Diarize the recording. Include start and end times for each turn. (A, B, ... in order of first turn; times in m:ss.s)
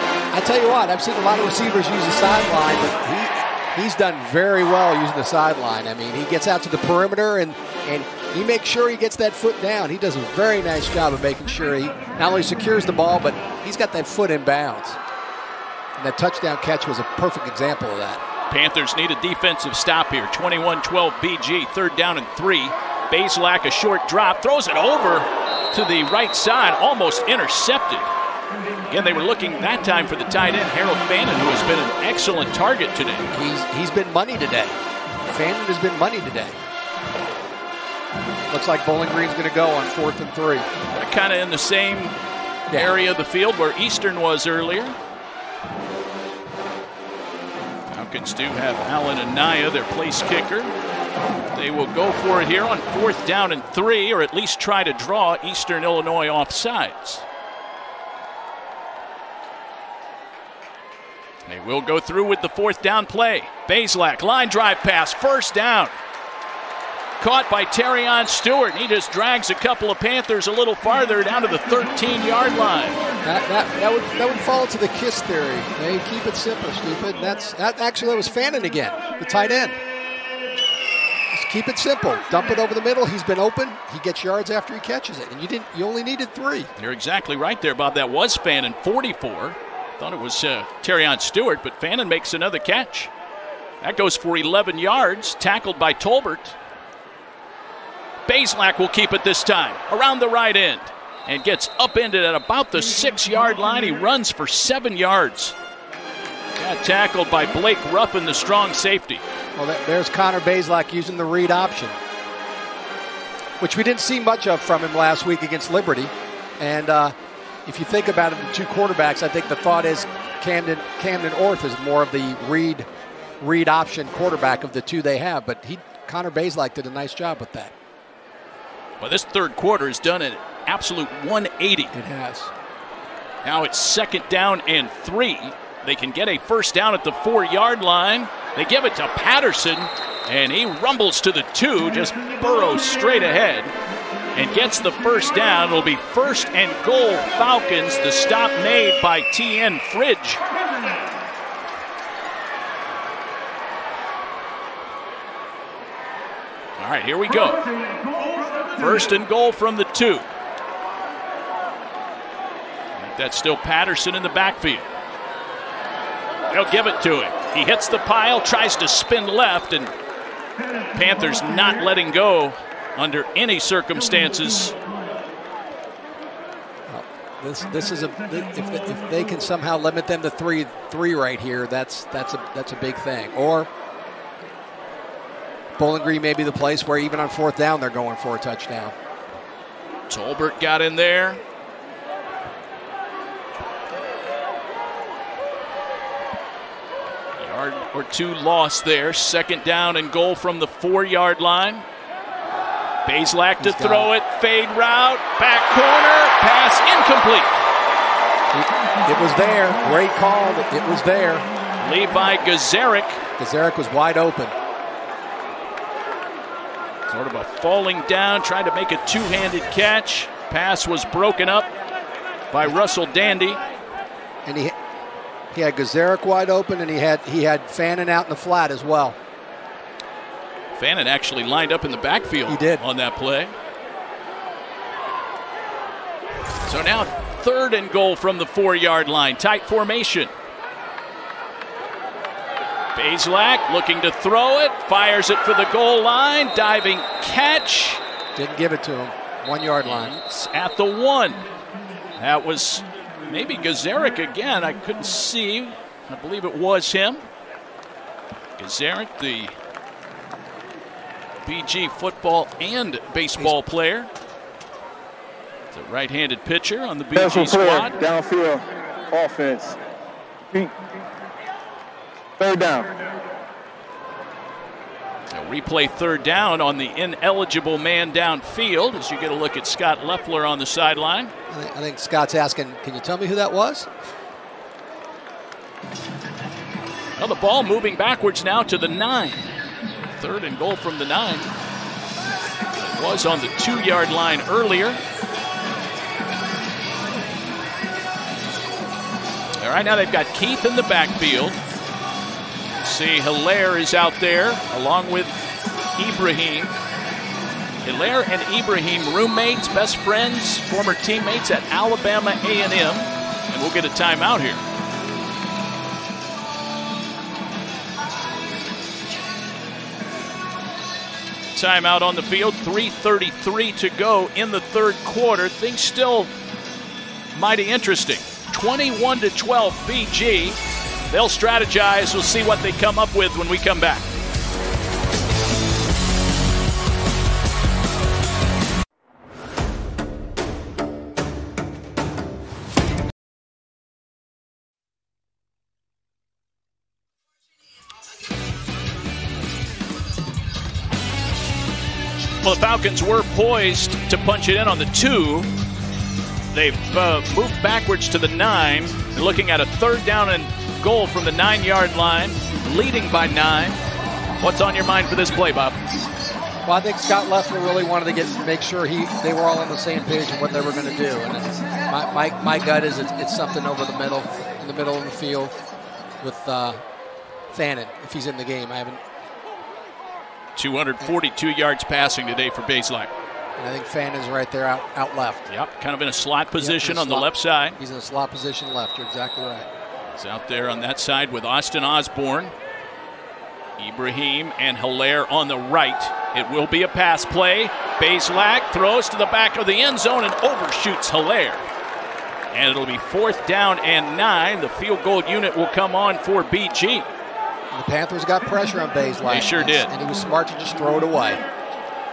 0:00.3-0:15.0 A
0:16.0-0:18.2 A
0:18.5-0:28.1 B
0:28.8-0:33.3 B
0:33.3-0:34.8 A
0:35.3-0:36.6 A
0:38.5-0:40.6 A
0:40.8-0:42.2 B
0:42.7-0:45.0 B
0:47.9-0:50.7 B
0:51.5-0:57.2 B
1:01.4-1:05.9 B
1:07.2-1:13.0 B
1:13.2-1:19.8 A
1:21.3-1:26.7 A
1:26.8-1:33.1 B
1:33.8-1:36.6 B
1:38.3-1:45.5 B
1:46.6-1:49.2 B
1:49.6-1:52.0 A
1:53.6-1:57.1 A
1:57.6-2:02.9 A
2:03.4-2:07.7 A
2:09.0-2:11.9 B
2:11.9-2:12.5 A
2:13.4-2:23.7 B
2:24.3-2:30.4 B
2:36.8-2:37.6 B
2:38.8-2:40.3 B
2:42.9-2:44.9 B
2:46.5-2:49.9 B
2:50.9-2:54.7 B
2:56.9-3:03.7 A
3:05.8-3:08.9 A
3:10.1-3:11.4 B
3:17.4-3:21.8 B
3:23.0-3:27.6 B
3:23.6-3:24.1 A
3:28.5-3:31.5 A
3:31.8-3:33.2 B
3:33.4-3:34.5 A
3:37.1-3:41.7 B
3:42.5-3:43.6 B
3:44.4-3:44.8 A
3:45.5-3:49.2 A
3:50.7-3:53.5 B
3:52.4-3:52.8 A
3:56.7-4:00.3 B
4:02.9-4:08.0 B
4:08.3-4:10.1 A
4:09.8-4:11.5 B
4:12.2-4:17.2 B
4:18.6-4:19.5 B
4:21.4-4:24.1 B
4:25.7-4:28.0 B
4:27.1-4:29.8 C
4:32.4-4:32.9 C
4:35.3-4:41.3 B
4:41.5-4:43.9 A
4:47.2-4:49.5 B
4:50.2-4:51.5 B
4:52.8-4:55.0 B
4:59.6-5:01.6 B
5:02.7-5:05.4 B
5:06.0-5:06.7 B
5:07.8-5:14.6 B
5:21.5-5:26.3 B
5:27.3-5:30.6 B
5:31.1-5:34.1 B
5:52.4-5:55.5 B
5:56.5-6:03.8 B
6:04.4-6:05.8 B
6:06.6-6:15.5 A
6:16.2-6:16.8 A
6:17.5-6:19.0 A
6:20.6-6:23.1 B
6:23.6-6:25.5 A
6:25.5-6:27.8 B
6:26.6-6:29.7 A
6:30.1-6:32.5 B
6:33.8-6:41.6 B
6:42.5-6:47.1 B
6:47.7-6:51.4 A
6:49.3-6:49.9 B